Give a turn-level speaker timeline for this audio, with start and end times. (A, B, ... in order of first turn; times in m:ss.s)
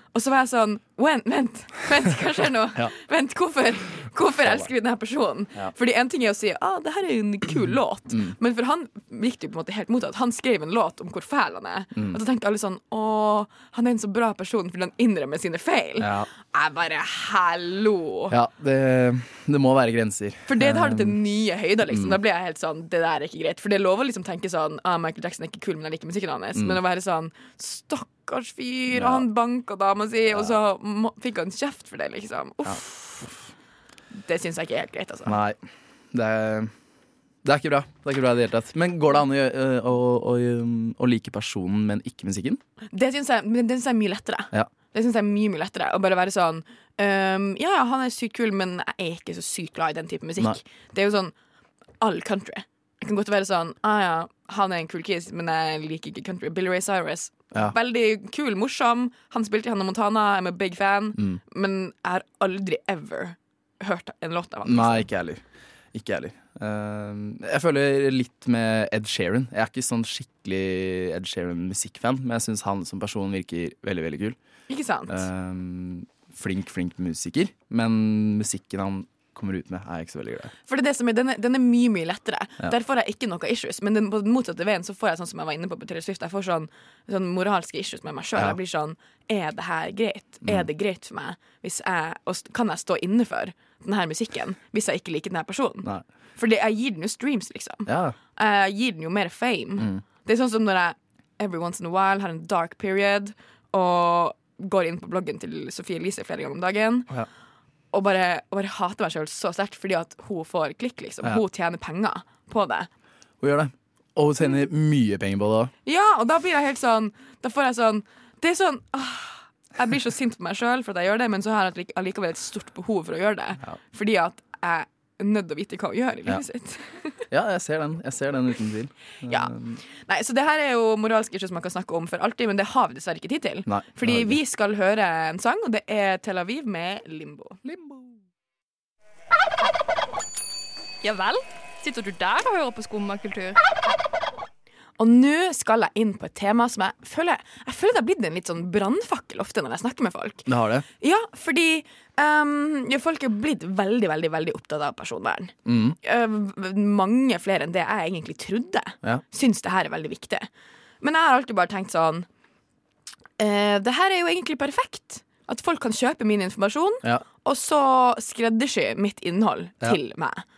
0:00.1-0:18.4 A
0:04.4-0:04.7 B
0:16.0-0:16.3 B
0:18.3-0:21.2 B
0:20.5-0:33.3 A
0:21.9-0:22.2 B
0:28.9-0:29.2 B
0:32.6-0:33.4 B
0:34.1-0:35.4 A
0:35.3-0:35.6 B
0:36.1-0:36.7 B
0:37.4-0:42.6 B
0:42.9-0:51.3 A
0:52.0-1:05.1 A
1:04.6-1:05.4 B
1:05.9-1:14.4 B
1:14.7-1:15.3 A
1:15.1-1:20.5 B
1:20.7-1:47.1 A
1:37.9-1:38.2 B
1:47.9-1:52.9 A
1:53.4-1:55.7 B
1:55.8-2:07.2 A
2:07.3-2:09.8 B
2:09.2-2:17.6 A
2:13.7-2:14.4 B
2:17.7-2:18.0 B
2:21.0-2:23.6 C
2:25.0-2:30.5 A
2:30.5-2:30.9 B
2:31.0-2:40.5 A
2:35.7-2:36.0 B
2:41.0-2:42.3 A
2:43.4-2:50.4 A